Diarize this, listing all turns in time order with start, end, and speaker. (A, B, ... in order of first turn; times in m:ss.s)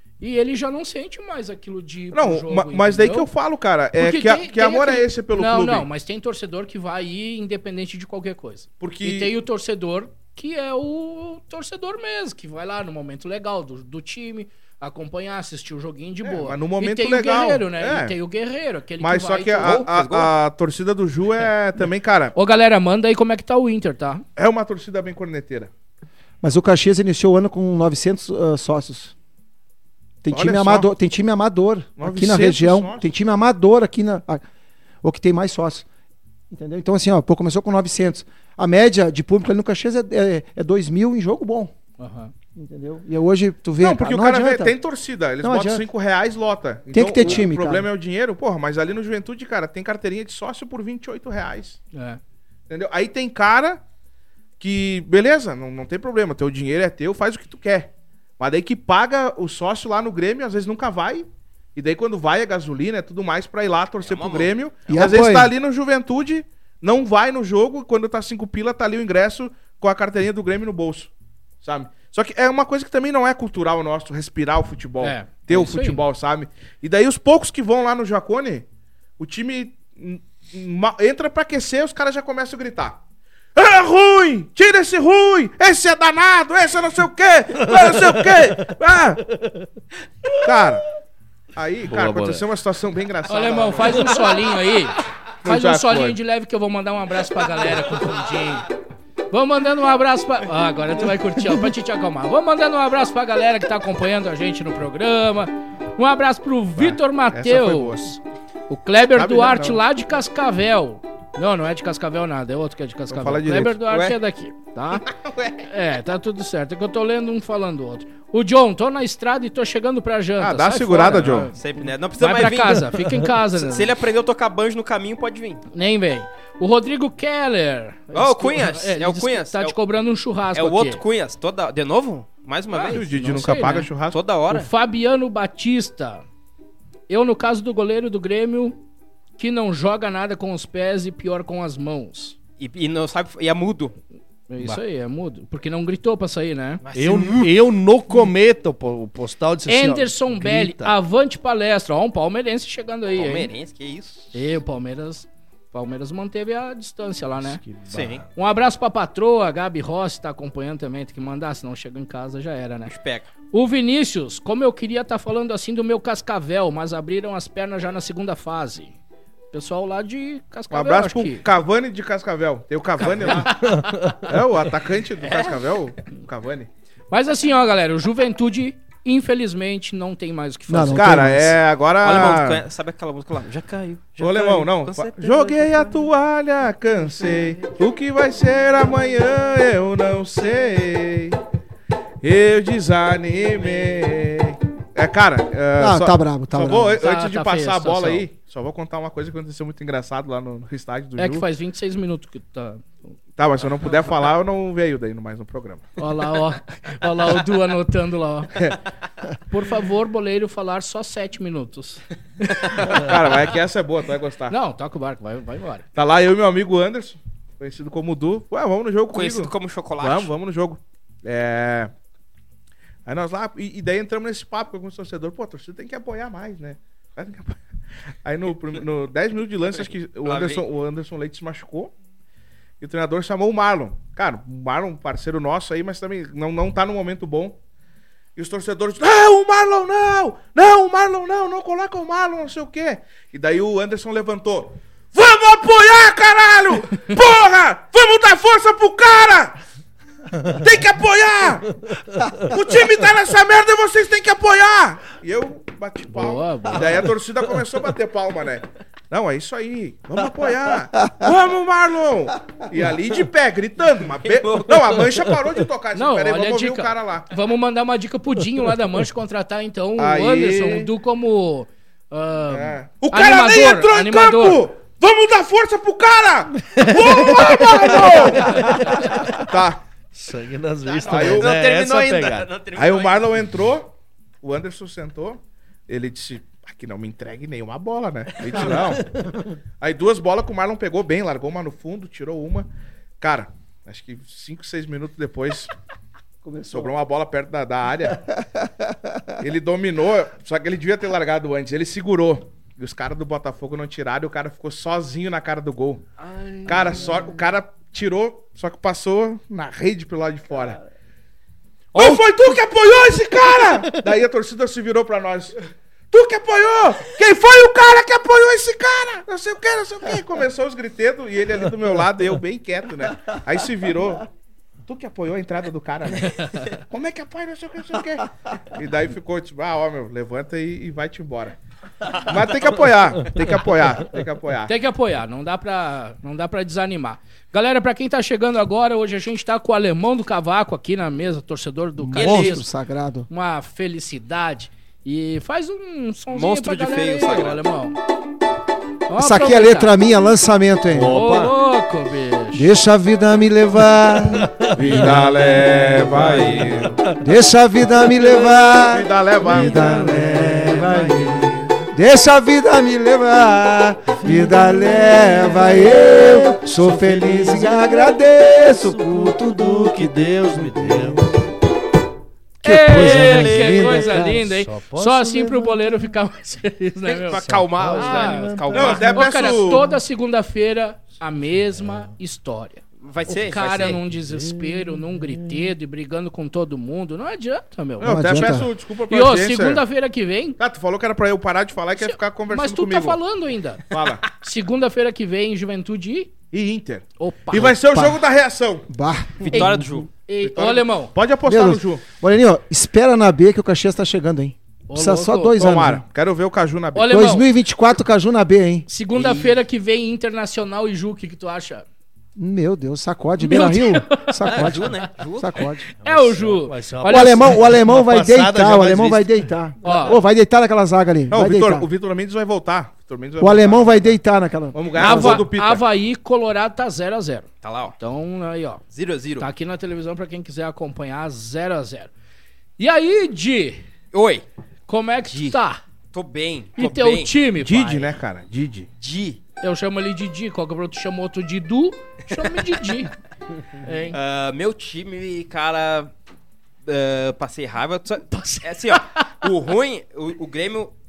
0:00.2-0:03.3 A
0:02.1-0:05.9 B
0:04.0-0:19.9 A
0:08.8-0:09.3 B
0:16.2-0:18.2 B
0:19.0-0:22.3 B
0:19.6-0:20.3 C
0:22.4-0:24.2 A
0:24.4-0:25.7 B
0:26.4-0:29.1 D
0:30.2-0:34.4 D
0:30.3-0:30.9 B
0:32.0-0:33.1 B
0:35.0-0:35.9 D
0:36.5-0:41.7 D
0:42.0-0:42.3 A
0:42.6-0:44.8 D
0:43.8-0:51.8 B
0:45.4-0:45.8 D
0:46.9-0:47.9 D
0:51.9-0:52.2 A
0:52.7-0:53.8 B
0:54.6-1:11.1 B
1:04.0-1:04.5 C
1:04.9-1:05.5 D
1:11.6-1:18.6 B
1:15.0-1:16.0 A
1:19.2-1:23.0 B
1:23.6-1:29.2 B
1:27.6-1:28.7 E
1:29.3-1:29.7 E
1:30.4-1:30.9 B
1:31.6-1:34.2 B
1:31.9-1:32.4 E
1:33.3-1:38.7 A
1:35.4-1:36.2 B
1:39.3-1:48.2 A
1:46.8-1:48.2 B
1:48.7-1:55.1 A
1:49.1-1:49.8 B
1:53.1-1:53.8 B
1:53.9-1:54.2 C
1:55.1-1:55.6 C
1:55.6-2:01.6 A
2:00.4-2:01.5 B
2:01.5-2:02.9 C
2:02.2-2:03.9 A
2:03.5-2:05.6 C
2:05.7-2:11.0 A
2:08.1-2:09.8 C
2:10.5-2:14.7 C
2:12.7-2:13.9 A
2:12.8-2:14.2 B
2:14.5-2:16.2 A
2:17.1-2:18.8 A
2:19.4-2:22.4 A
2:22.6-2:24.0 C
2:24.5-2:26.8 A
2:26.8-2:27.5 C
2:26.9-2:31.0 E
2:29.7-2:33.5 A
2:33.2-2:34.4 C
2:34.3-2:37.6 A
2:37.4-2:38.2 E
2:37.9-2:38.2 C
2:38.4-2:42.9 A
2:42.9-2:43.3 C
2:43.5-2:49.0 A
2:49.5-2:51.4 A
2:50.7-2:53.6 B
2:53.2-2:54.0 A
2:53.5-2:54.3 E
2:54.2-2:56.7 B
2:55.2-2:55.6 C
2:57.1-3:01.3 A
3:00.7-3:01.6 D
3:00.9-3:02.6 B
3:02.0-3:06.0 C
3:04.2-3:11.4 B
3:07.2-3:07.5 C
3:12.2-3:21.5 B
3:15.8-3:17.0 D
3:17.0-3:18.3 A
3:21.2-3:22.9 A
3:23.4-3:25.9 B
3:26.0-3:28.6 A
3:29.5-3:32.0 A
3:32.5-3:33.0 A
3:32.8-3:34.5 B
3:34.5-3:35.8 A
3:36.0-3:41.9 B
3:39.1-3:40.3 C
3:43.1-3:47.6 B
3:48.2-3:51.9 B
3:50.2-3:50.6 C
3:52.8-3:57.6 B
3:58.4-4:09.6 B
4:10.4-4:11.8 B
4:11.9-4:12.6 E
4:12.4-4:27.3 B
4:16.1-4:17.1 A
4:24.2-4:25.2 C
4:26.0-4:34.6 A
4:30.0-4:30.9 B
4:32.5-4:39.8 B
4:36.7-4:39.5 E
4:40.1-4:42.5 E
4:40.8-4:43.3 C
4:41.0-4:41.5 B
4:42.8-4:49.0 B
4:48.5-4:48.8 C
4:48.9-4:49.6 E
4:49.8-4:52.7 B
4:53.2-4:55.7 B
4:56.4-4:56.9 D
4:56.7-4:58.2 B
4:58.2-4:59.3 D
4:59.4-5:06.0 B
5:06.2-5:07.3 C
5:06.6-5:10.8 B
5:11.9-5:15.6 B
5:16.1-5:24.3 B
5:24.9-5:34.7 B
5:34.7-5:42.7 A
5:42.0-5:43.3 D
5:42.2-5:42.6 C
5:43.3-5:48.0 A
5:46.3-5:47.6 C
5:49.1-5:50.0 A
5:49.2-5:51.2 D
5:50.9-5:51.6 E
5:51.1-5:52.7 A
5:52.5-5:54.6 D
5:54.3-5:57.2 E
5:54.7-5:57.0 B
5:56.1-5:56.9 C
5:57.2-6:11.4 D
5:58.7-6:00.0 B
5:59.5-6:01.7 E
6:04.2-6:11.4 E
6:12.6-6:14.4 D
6:12.6-6:30.6 A
6:12.7-6:14.1 C
6:14.2-6:16.1 E
6:17.1-6:19.5 C
6:17.4-6:20.0 E
6:18.7-6:19.8 B
6:21.6-6:22.1 E
6:23.0-6:24.0 C
6:23.3-6:25.7 E
6:28.0-6:29.8 B
6:28.0-6:28.7 D
6:30.6-6:33.2 B
6:32.0-6:36.3 A
6:33.9-6:34.3 B
6:36.5-6:38.9 B
6:37.2-6:37.8 A
6:37.6-6:38.2 D
6:38.9-6:40.0 D
6:39.4-6:40.1 C
6:40.2-6:41.1 A
6:40.4-6:42.0 B
6:41.5-6:46.0 D
6:44.9-6:45.6 A
6:45.6-6:47.2 B
6:47.0-6:47.5 A
6:47.1-6:48.9 D
6:48.9-6:51.8 A
6:49.1-6:49.6 C
6:52.4-6:55.9 D
6:53.4-6:54.9 A
6:54.4-6:55.7 C
6:56.0-6:57.6 A
6:56.0-6:59.3 E
6:57.0-7:01.9 D
6:59.8-7:00.2 A
7:01.3-7:04.2 B
7:03.4-7:05.4 D
7:04.7-7:05.8 B
7:05.0-7:07.5 A
7:07.6-7:08.0 C
7:08.0-7:08.8 A
7:08.9-7:09.5 C
7:09.4-7:12.1 A
7:12.8-7:13.8 A
7:14.1-7:14.5 C
7:14.9-7:15.8 A
7:15.3-7:15.6 C
7:16.1-7:17.3 C
7:16.8-7:18.1 A
7:17.6-7:18.9 B
7:19.0-7:19.4 C
7:19.6-7:23.1 A
7:22.3-7:22.9 C
7:23.8-7:24.2 A
7:24.1-7:26.1 C
7:26.8-7:30.9 C
7:28.3-7:29.3 A